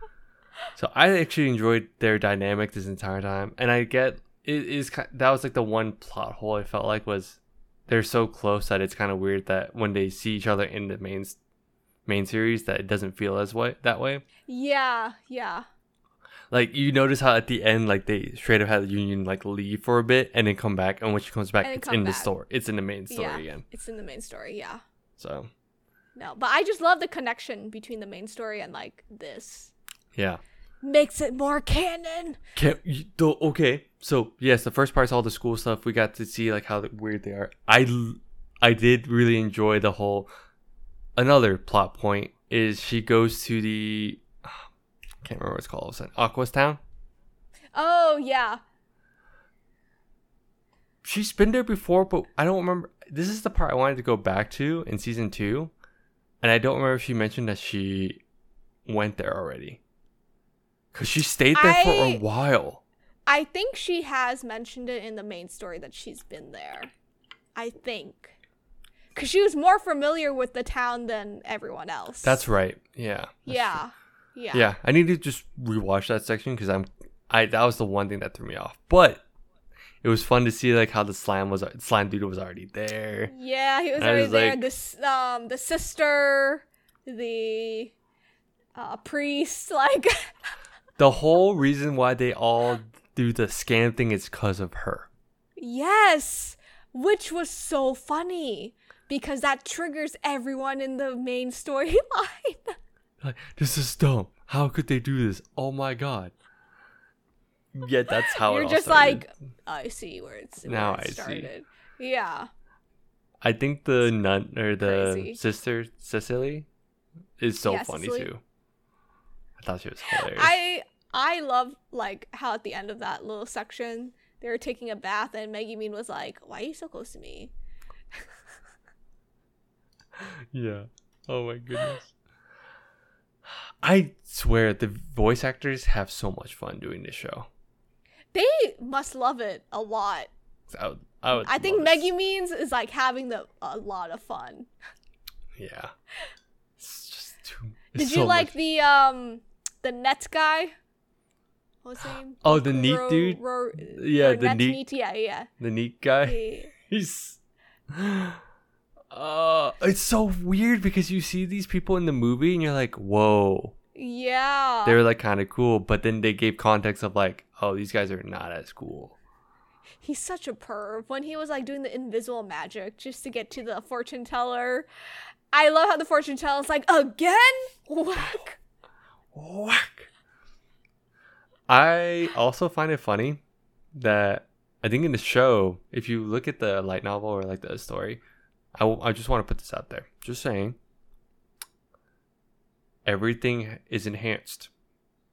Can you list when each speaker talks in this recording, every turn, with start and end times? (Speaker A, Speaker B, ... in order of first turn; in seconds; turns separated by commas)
Speaker A: 0.7-11.4, Speaker A: 12.1-14.2, Speaker B: 14.4-15.7, Speaker A: 16.5-23.6, Speaker B: 21.6-22.3, Speaker B: 23.1-24.8, Speaker A: 25.2-25.5, Speaker B: 26.1-29.7, Speaker A: 30.1-30.4, Speaker B: 30.8-32.4, Speaker A: 32.5-40.3, Speaker A: 41.1-44.6, Speaker A: 45.2-46.8, Speaker B: 47.7-48.6, Speaker A: 51.0-55.7, Speaker A: 56.4-58.2, Speaker A: 58.9-59.8, Speaker A: 60.9-62.8, Speaker B: 61.5-62.2, Speaker B: 63.3-66.9, Speaker B: 67.5-68.3, Speaker B: 69.1-72.4, Speaker A: 72.2-73.8, Speaker B: 73.5-74.6, Speaker A: 74.5-79.2, Speaker A: 80.0-83.3, Speaker B: 83.3-87.9, Speaker A: 83.9-84.6, Speaker B: 88.7-90.2, Speaker A: 91.0-95.1, Speaker B: 95.6-102.7, Speaker A: 103.2-106.3, Speaker A: 107.7-109.2, Speaker B: 108.2-112.5, Speaker A: 110.6-111.5, Speaker A: 113.4-116.7, Speaker B: 114.8-115.4, Speaker A: 117.4-118.4, Speaker B: 117.6-118.3, Speaker A: 119.6-120.6, Speaker B: 120.1-127.5, Speaker A: 130.2-132.1, Speaker A: 133.8-137.5, Speaker B: 138.3-140.3, Speaker A: 140.7-142.1, Speaker B: 141.3-144.7, Speaker A: 145.6-145.9, Speaker A: 146.8-148.5, Speaker B: 147.9-150.7, Speaker B: 151.8-155.5, Speaker A: 152.4-154.8, Speaker A: 155.6-157.4, Speaker B: 156.2-156.7, Speaker A: 157.9-158.4, Speaker A: 159.1-163.7, Speaker B: 163.9-165.0, Speaker A: 164.8-169.2, Speaker B: 170.0-174.9, Speaker B: 175.5-178.6, Speaker A: 179.3-180.1, Speaker A: 181.7-183.4, Speaker A: 183.9-188.2, Speaker A: 188.8-190.8, Speaker A: 193.0-194.7